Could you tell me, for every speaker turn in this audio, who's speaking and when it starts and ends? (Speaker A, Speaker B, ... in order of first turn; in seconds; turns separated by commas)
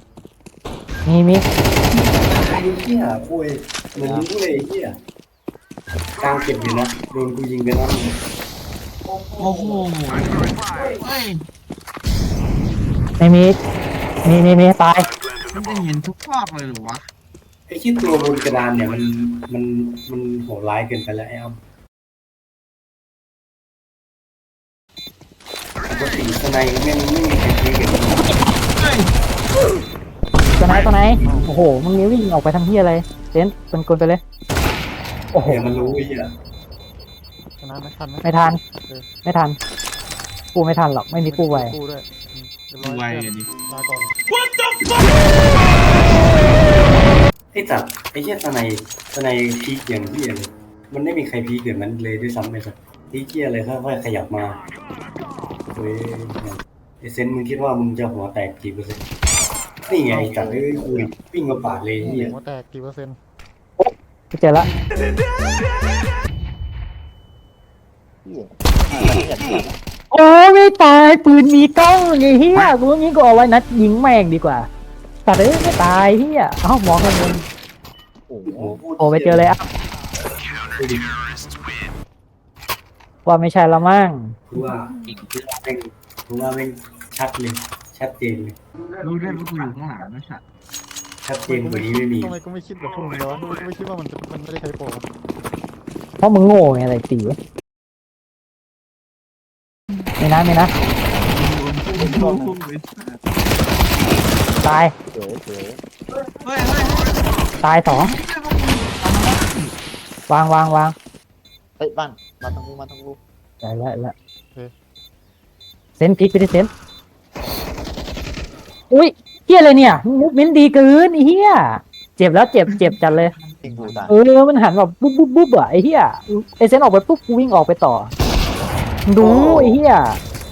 Speaker A: 1.0-1.4, Speaker B: 1.9-5.0, Speaker C: 4.0-4.3, Speaker B: 6.2-8.2, Speaker D: 9.3-11.4, Speaker A: 13.2-13.6, Speaker A: 14.2-15.1, Speaker D: 15.5-17.1, Speaker B: 17.7-21.6, Speaker B: 25.9-28.2, Speaker D: 28.7-29.1, Speaker A: 30.6-34.2, Speaker E: 31.2-31.6, Speaker A: 35.3-35.6, Speaker B: 35.4-36.3, Speaker E: 35.8-36.0, Speaker E: 37.6-39.1, Speaker A: 38.2-38.6, Speaker A: 39.2-39.6, Speaker A: 40.5-41.7, Speaker E: 41.2-44.1, Speaker D: 42.8-43.5, Speaker B: 47.5-54.6, Speaker B: 55.7-59.0, Speaker B: 59.9-62.3, Speaker C: 60.1-61.1, Speaker C: 62.0-62.3, Speaker E: 62.2-63.2, Speaker A: 63.8-64.7, Speaker C: 68.2-69.8, Speaker A: 70.1-74.7, Speaker A: 75.2-77.4, Speaker C: 78.3-78.8, Speaker B: 78.5-79.5, Speaker A: 79.0-79.6, Speaker B: 80.7-81.0, Speaker A: 83.2-84.4, Speaker B: 84.5-88.6, Speaker D: 89.0-90.4, Speaker B: 91.2-92.4, Speaker E: 91.5-95.1, Speaker A: 96.2-97.3, Speaker A: 100.2-100.7, Speaker D: 100.7-103.2, Speaker C: 101.9-102.6, Speaker A: 104.6-104.9, Speaker C: 105.1-105.8, Speaker D: 106.4-107.2, Speaker A: 107.6-108.1, Speaker D: 107.9-109.7, Speaker A: 110.3-110.9, Speaker C: 111.8-113.2, Speaker A: 113.6-114.1, Speaker A: 116.0-116.7, Speaker A: 118.9-123.3, Speaker D: 122.7-124.1, Speaker C: 123.6-124.2, Speaker A: 124.1-128.1, Speaker A: 129.1-130.2, Speaker B: 129.2-129.8